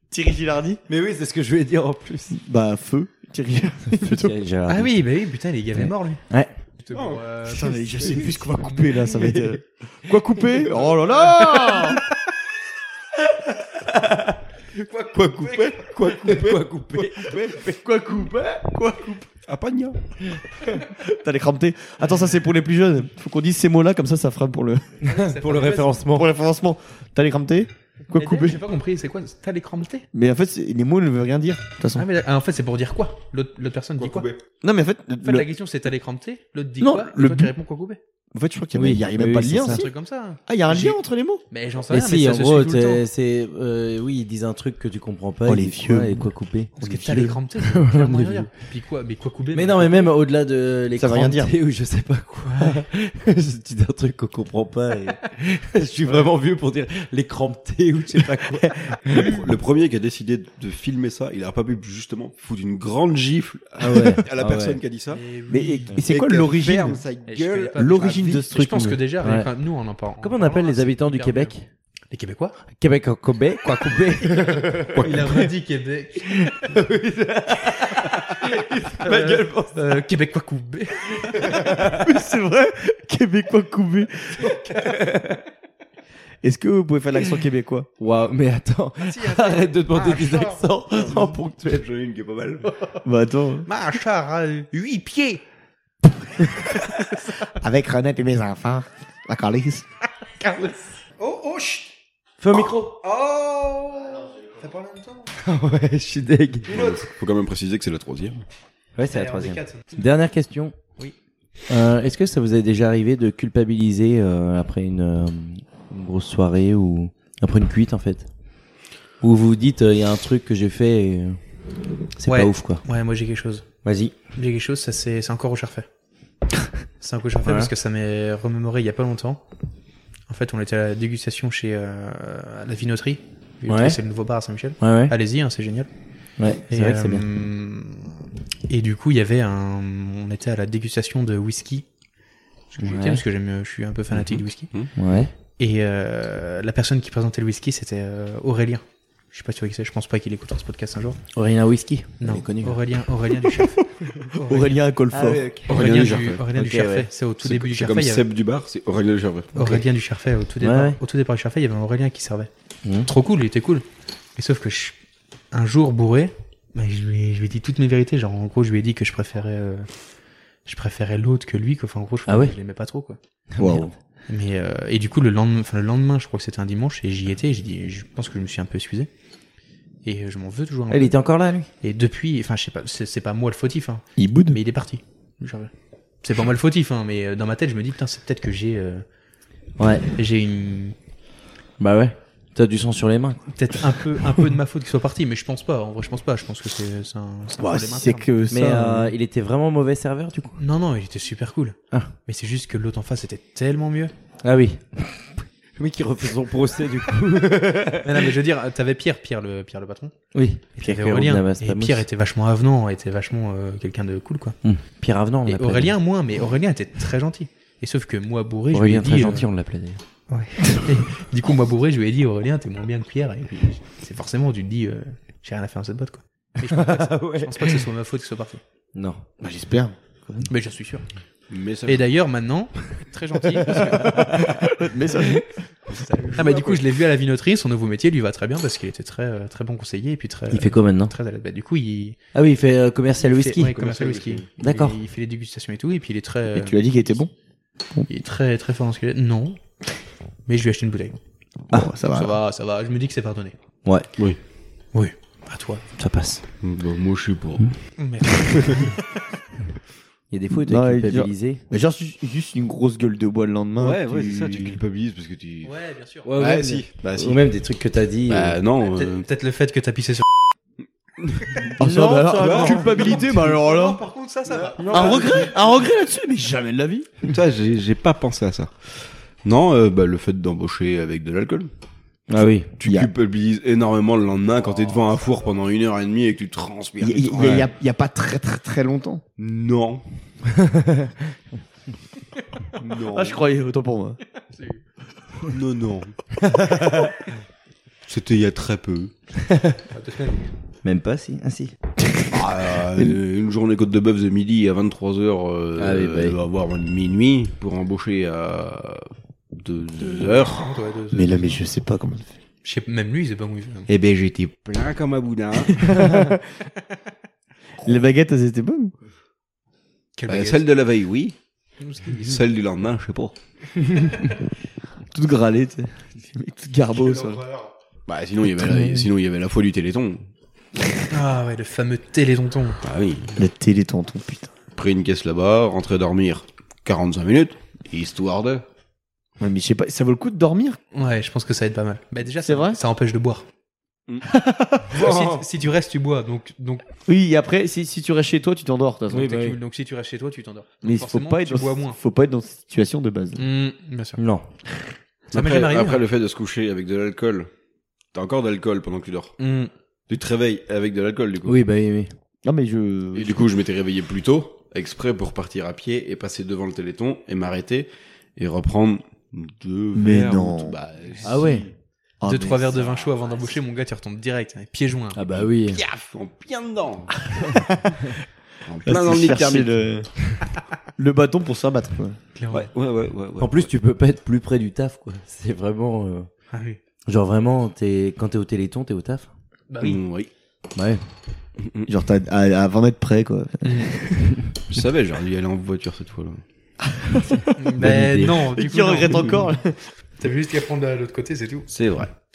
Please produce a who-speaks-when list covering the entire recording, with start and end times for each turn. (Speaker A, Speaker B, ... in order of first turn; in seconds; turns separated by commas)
Speaker A: 0.1-0.8, Speaker B: 0.9-2.4, Speaker A: 2.3-4.4, Speaker B: 4.0-4.9, Speaker C: 4.7-6.2, Speaker B: 5.8-6.5, Speaker C: 6.8-9.3, Speaker D: 6.9-7.2, Speaker A: 7.4-12.1, Speaker B: 9.1-9.6, Speaker C: 10.9-12.1, Speaker B: 13.8-14.4, Speaker C: 14.8-15.9, Speaker D: 15.0-16.6, Speaker B: 16.1-17.3, Speaker D: 17.2-17.5, Speaker A: 17.2-19.3, Speaker D: 19.5-20.0, Speaker B: 20.3-20.7, Speaker A: 20.8-25.1, Speaker B: 25.0-26.3, Speaker C: 25.1-26.0, Speaker A: 26.1-28.6, Speaker C: 28.1-30.1, Speaker A: 30.1-32.1, Speaker C: 31.9-34.3, Speaker D: 34.0-34.4, Speaker A: 34.6-35.5, Speaker C: 35.2-38.0, Speaker A: 36.8-37.5, Speaker A: 38.3-39.9, Speaker B: 38.8-39.9, Speaker C: 39.5-41.0, Speaker A: 40.5-41.4, Speaker C: 41.5-43.0, Speaker B: 41.9-46.7, Speaker A: 45.5-47.4, Speaker C: 46.8-50.1, Speaker B: 47.6-48.5, Speaker B: 49.5-59.3, Speaker A: 51.0-51.5, Speaker C: 52.4-52.9, Speaker C: 56.0-56.3, Speaker C: 59.1-59.5, Speaker D: 59.1-65.2, Speaker B: 63.8-64.8, Speaker A: 63.9-64.2, Speaker C: 65.1-66.0, Speaker A: 65.5-67.0, Speaker D: 66.0-68.4, Speaker C: 67.3-71.5, Speaker A: 67.8-69.0, Speaker B: 69.2-69.5, Speaker B: 70.2-71.7, Speaker C: 72.1-72.6, Speaker B: 72.8-75.5, Speaker C: 73.8-74.4, Speaker D: 74.9-75.3, Speaker C: 75.0-76.7, Speaker B: 76.3-80.0, Speaker C: 79.0-81.7, Speaker B: 81.4-82.0, Speaker A: 81.8-84.5, Speaker C: 84.3-85.1, Speaker B: 84.8-85.4, Speaker A: 86.4-87.9, Speaker B: 88.0-91.8, Speaker C: 89.0-90.7, Speaker D: 90.9-92.7, Speaker C: 92.6-93.0, Speaker A: 93.0-93.7, Speaker C: 93.7-95.4, Speaker C: 96.9-97.3, Speaker A: 97.5-99.9, Speaker C: 100.4-102.0, Speaker B: 102.4-103.0, Speaker C: 103.0-105.3, Speaker B: 105.4-106.7, Speaker C: 106.7-107.1, Speaker D: 106.7-108.4, Speaker B: 109.0-110.8, Speaker C: 109.1-110.0, Speaker B: 111.7-118.3, Speaker B: 119.2-121.4, Speaker B: 122.2-122.8, Speaker C: 122.3-123.7, Speaker B: 123.8-124.2, Speaker C: 124.3-125.9, Speaker C: 127.0-129.4, Speaker B: 127.5-127.7, Speaker C: 130.3-135.9, Speaker B: 133.7-134.0, Speaker B: 134.8-135.2, Speaker B: 136.4-137.2, Speaker C: 136.7-138.1, Speaker C: 138.7-141.8, Speaker C: 142.7-144.9, Speaker B: 142.8-143.2, Speaker D: 144.1-144.9, Speaker B: 145.0-145.3, Speaker C: 145.6-151.2, Speaker B: 151.3-152.8, Speaker C: 152.2-154.8, Speaker A: 154.4-156.1, Speaker B: 155.1-157.1, Speaker C: 155.7-158.2, Speaker D: 155.7-156.4, Speaker D: 157.4-159.5, Speaker C: 159.6-162.5, Speaker B: 159.6-159.8, Speaker B: 160.6-161.0, Speaker C: 163.1-163.8, Speaker C: 164.4-165.0, Speaker C: 165.5-169.9, Speaker C: 170.7-173.2, Speaker B: 172.3-172.5, Speaker B: 173.6-173.9, Speaker A: 173.6-173.8, Speaker C: 174.3-179.1, Speaker C: 180.1-181.1, Speaker B: 180.9-181.7, Speaker C: 181.8-185.7, Speaker A: 184.2-184.6, Speaker C: 186.2-189.0, Speaker B: 189.8-190.1, Speaker C: 190.1-190.9, Speaker B: 191.8-193.4, Speaker C: 193.5-198.3, Speaker A: 197.6-199.1, Speaker B: 198.5-200.6, Speaker C: 200.6-204.1, Speaker B: 204.4-208.3, Speaker C: 208.0-210.1, Speaker B: 210.3-212.1, Speaker C: 210.8-214.6, Speaker B: 214.6-216.0, Speaker C: 215.5-219.5, Speaker B: 218.7-220.0, Speaker C: 220.3-228.6, Speaker B: 226.6-227.8, Speaker B: 228.9-229.2, Speaker A: 229.4-230.5, Speaker C: 230.5-231.1, Speaker D: 231.5-232.1, Speaker C: 231.9-234.5, Speaker B: 233.6-234.6, Speaker A: 233.9-236.8, Speaker C: 236.3-242.2, Speaker D: 236.4-236.7, Speaker B: 240.5-241.1, Speaker B: 242.3-243.7, Speaker C: 243.2-246.8, Speaker D: 243.6-244.5, Speaker B: 244.6-245.0, Speaker A: 246.5-247.3, Speaker C: 248.1-249.6, Speaker C: 250.5-251.2, Speaker A: 251.7-252.4, Speaker C: 252.1-253.6, Speaker C: 254.9-255.8, Speaker B: 256.0-256.4, Speaker D: 256.6-257.7, Speaker C: 258.0-259.0, Speaker D: 258.6-258.9, Speaker B: 260.3-261.6, Speaker A: 260.5-264.8, Speaker D: 263.8-265.7, Speaker C: 265.6-266.3, Speaker B: 266.2-268.6, Speaker D: 266.4-267.4, Speaker D: 268.3-269.2, Speaker C: 268.9-270.3, Speaker D: 271.2-271.7, Speaker B: 271.8-273.1, Speaker A: 271.8-274.0, Speaker D: 272.4-272.8, Speaker C: 272.5-275.6, Speaker D: 274.5-275.5, Speaker A: 274.9-277.1, Speaker D: 277.2-278.9, Speaker D: 279.4-281.7, Speaker B: 282.3-282.7, Speaker D: 282.8-287.7, Speaker A: 282.8-283.1, Speaker C: 284.6-285.5, Speaker A: 287.0-289.2, Speaker D: 289.4-290.0, Speaker B: 290.5-291.1, Speaker D: 292.8-293.4, Speaker A: 293.1-294.2, Speaker C: 294.5-294.8, Speaker D: 295.4-296.2, Speaker B: 296.5-297.1, Speaker D: 298.1-299.1, Speaker B: 299.4-299.8, Speaker C: 299.9-300.5, Speaker B: 300.8-301.7, Speaker A: 302.0-303.2, Speaker D: 302.3-310.7, Speaker B: 305.8-306.4, Speaker C: 310.5-311.6, Speaker A: 311.1-312.4, Speaker C: 312.6-313.9, Speaker D: 313.9-316.2, Speaker A: 316.0-316.4, Speaker A: 317.8-318.9, Speaker C: 320.2-320.7, Speaker D: 320.3-321.4, Speaker C: 321.8-322.4, Speaker D: 322.2-323.4, Speaker A: 325.1-327.4, Speaker C: 327.3-327.7, Speaker D: 328.1-330.2, Speaker B: 328.6-329.1, Speaker C: 331.1-332.8, Speaker D: 332.8-333.4, Speaker A: 333.4-334.5, Speaker D: 334.8-338.6, Speaker A: 339.4-340.8, Speaker C: 340.9-343.5, Speaker A: 342.4-342.8, Speaker A: 344.2-345.0, Speaker C: 344.9-346.9, Speaker B: 345.0-345.4, Speaker A: 347.1-349.4, Speaker B: 349.1-349.6, Speaker C: 349.2-352.0, Speaker A: 350.8-353.4, Speaker C: 353.4-354.2, Speaker B: 354.2-354.5, Speaker D: 355.3-357.5, Speaker C: 355.3-356.1, Speaker D: 358.1-359.4, Speaker C: 359.4-359.7, Speaker D: 360.1-361.6, Speaker B: 361.5-362.1, Speaker A: 362.4-363.5, Speaker D: 363.1-371.7, Speaker A: 369.9-370.8, Speaker B: 371.2-371.7, Speaker A: 372.2-373.1, Speaker C: 372.2-375.2, Speaker B: 375.1-375.8, Speaker D: 375.3-377.6, Speaker A: 377.4-378.1, Speaker D: 378.6-379.7, Speaker A: 378.9-380.1, Speaker A: 381.0-382.2, Speaker C: 382.4-382.7, Speaker D: 382.5-383.7, Speaker B: 383.4-386.3, Speaker C: 386.5-386.8, Speaker B: 387.1-389.3, Speaker C: 389.7-390.0, Speaker D: 389.8-390.3, Speaker B: 390.8-391.0, Speaker D: 391.6-391.9, Speaker A: 391.9-394.4, Speaker C: 393.6-393.9, Speaker D: 394.7-396.4, Speaker A: 396.9-397.5, Speaker C: 397.6-399.5, Speaker B: 397.8-398.5, Speaker A: 398.5-399.8, Speaker C: 400.2-401.7, Speaker D: 401.7-402.1